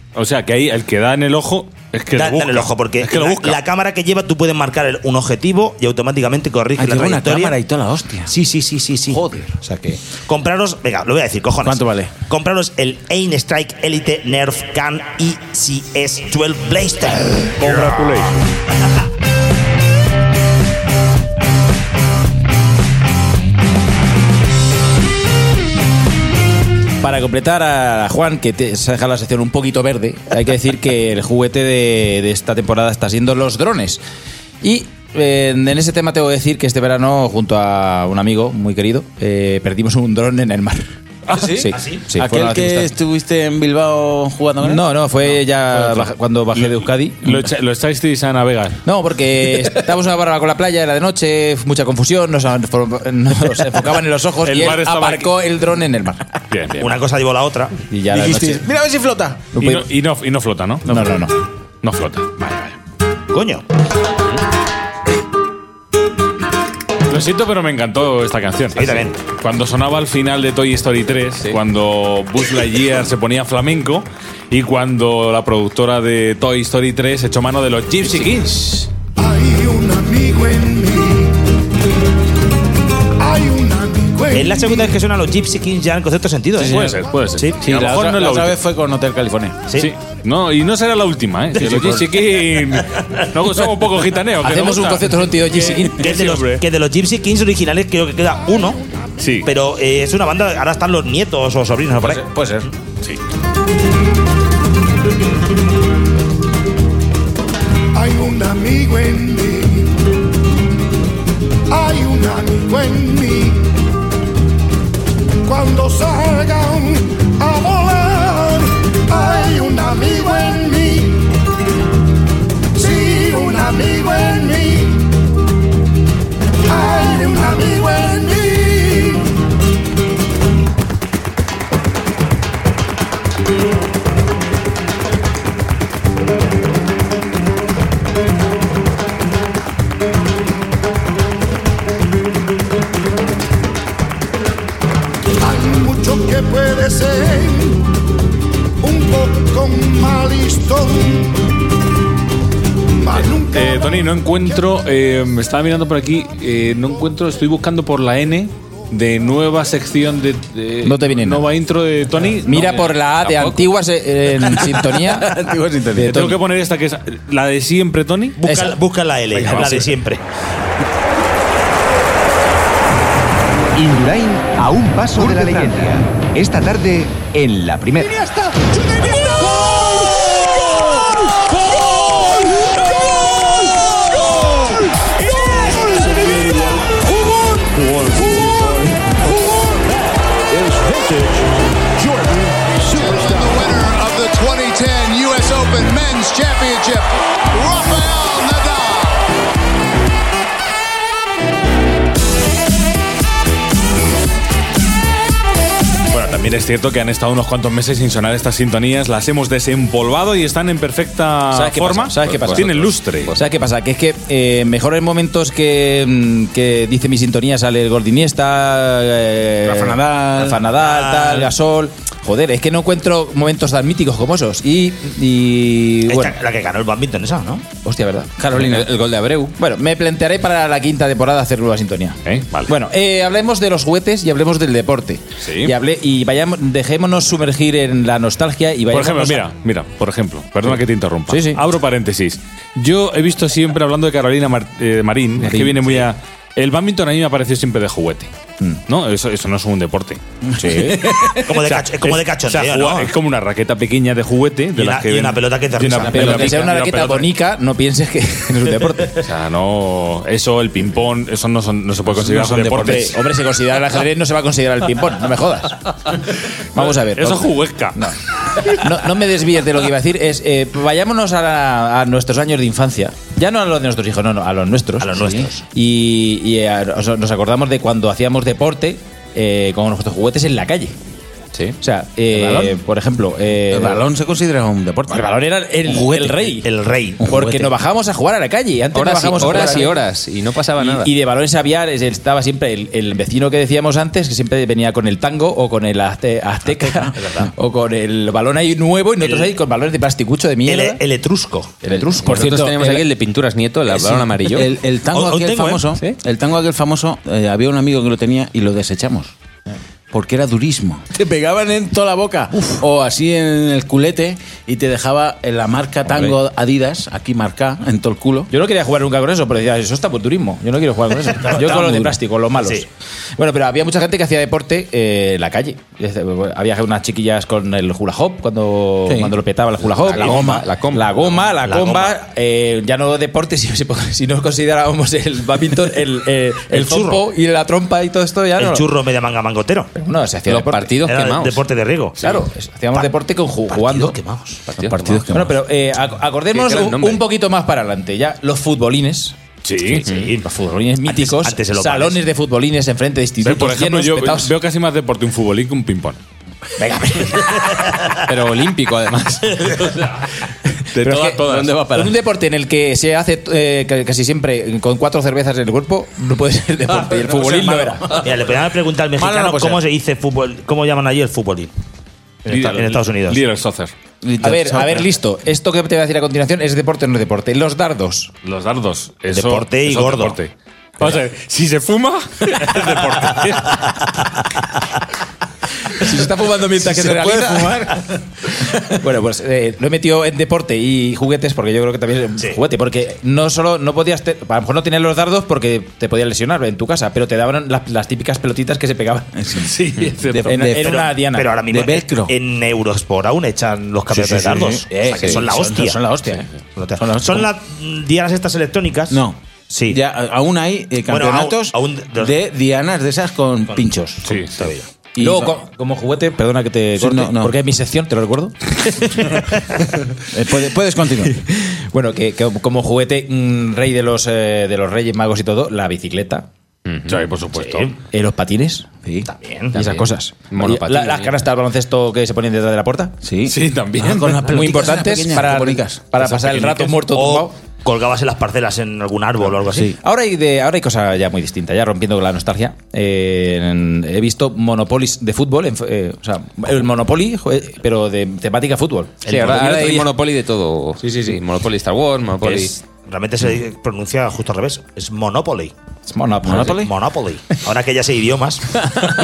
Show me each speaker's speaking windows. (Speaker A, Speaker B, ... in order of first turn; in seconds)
Speaker A: 0.2-3.6, 46.6-48.8, 54.5-55.3, 56.5-57.0, 59.6-61.0, 61.8-62.7, 67.1-78.9, 86.7-88.6, 89.8-96.6, 99.2-99.5, 153.5-162.9, 166.0-168.4, 169.4-169.8, 206.1-213.3, 232.2-232.7, 235.4-235.7, 238.9-248.3, 248.9-250.2, 251.7-257.3, 259.2-263.1, 266.8-268.0, 349.6-350.1, 353.4-356.2, 361.0-361.7, 372.5-373.9, 378.4-384.0, 399.6-400.8, 414.3-414.5, 427.1-427.9, 433.5-434.5
Speaker B: 2.1-7.6, 8.3-18.3, 41.7-42.0, 56.8-57.8, 63.3-63.6, 68.7-69.2, 84.3-87.6, 96.0-98.8, 99.5-102.3, 168.4-170.2, 220.8-221.5, 226.1-227.7, 251.4-253.1, 254.8-256.5, 275.0-275.6, 286.6-287.2, 297.2-297.5, 299.2-299.5, 300.7-301.8, 305.1-305.9, 321.4-321.8, 322.6-322.9, 330.1-330.4, 331.6-332.2, 336.7-337.2, 338.6-339.9, 341.0-342.3, 343.7-344.6, 350.0-350.5, 351.1-352.2, 368.1-371.7, 372.5-373.4, 379.3-380.4, 400.8-406.1, 406.8-410.0, 411.1-412.4, 413.7-414.8, 427.6-427.9, 429.2-429.8, 436.7-439.9, 453.1-455.7, 456.6-459.1
Speaker C: 6.8-8.3, 9.1-9.5, 11.6-12.1, 41.3-44.9, 58.1-59.5, 78.0-78.8, 86.6-87.0, 87.6-89.6, 91.6-92.2, 102.0-102.7, 164.6-166.1, 219.6-220.6, 228.4-228.9, 250.6-251.3, 256.2-256.9, 262.1-263.1, 282.3-282.7, 283.7-285.3, 285.9-286.6, 287.2-287.7, 289.5-289.8, 302.3-303.0, 303.9-309.3, 310.1-318.5, 321.5-322.1, 329.1-329.4, 330.2-330.7, 344.8-345.6, 367.4-367.9, 369.2-369.8, 374.2-375.1, 386.8-388.1, 399.4-401.0, 401.7-402.3, 404.1-407.4, 409.1-414.4, 415.2-415.5, 417.0-417.6, 420.3-421.4, 433.2-436.2, 439.7-440.0, 456.5-456.9
Speaker D: 27.0-34.0, 34.6-42.9, 44.6-47.4, 48.9-56.3, 57.9-58.7, 59.5-59.9, 60.9-61.3, 94.4-96.1, 160.8-161.5, 162.4-165.4, 166.0-166.4, 168.4-168.8, 211.5-226.3, 227.8-228.3, 229.6-239.5, 241.3-241.6, 245.5-245.9, 250.6-251.0, 255.8-259.2, 262.8-265.8, 266.8-281.0, 281.8-284.1, 285.1-286.7, 287.2-290.0, 290.8-301.0, 301.8-303.0, 316.1-316.4, 318.5-338.9, 339.9-341.0, 342.2-344.2, 345.3-349.4, 350.4-354.5, 356.8-357.7, 361.0-368.2, 374.4-378.3, 386.0-387.8, 388.9-399.3, 400.4-401.5, 415.2-418.6, 421.2-426.5, 428.0-428.9, 429.7-433.2, 434.5-437.5, 440.0-450.1, 451.0-451.4, 452.4-452.7, 456.1-456.9
Speaker E: 79.2-81.4, 83.2-85.0, 107.9-110.0, 111.7-113.7, 115.5-121.3, 122.7-125.0, 126.7-129.3, 145.4-147.9, 148.8-151.4, 152.9-154.0, 193.1-193.4
Speaker F: 163.1-163.7, 212.2-213.4, 228.5-229.6, 288.9-291.1, 302.1-304.7, 330.4-331.1, 340.5-341.6, 344.7-345.3, 346.5-347.2, 358.3-360.0, 361.2-362.1, 426.9-427.2, 429.8-431.4, 449.3-452.8
Speaker G: 173.8-178.1
Speaker H: 190.6-191.2, 193.0-197.0, 197.7-198.6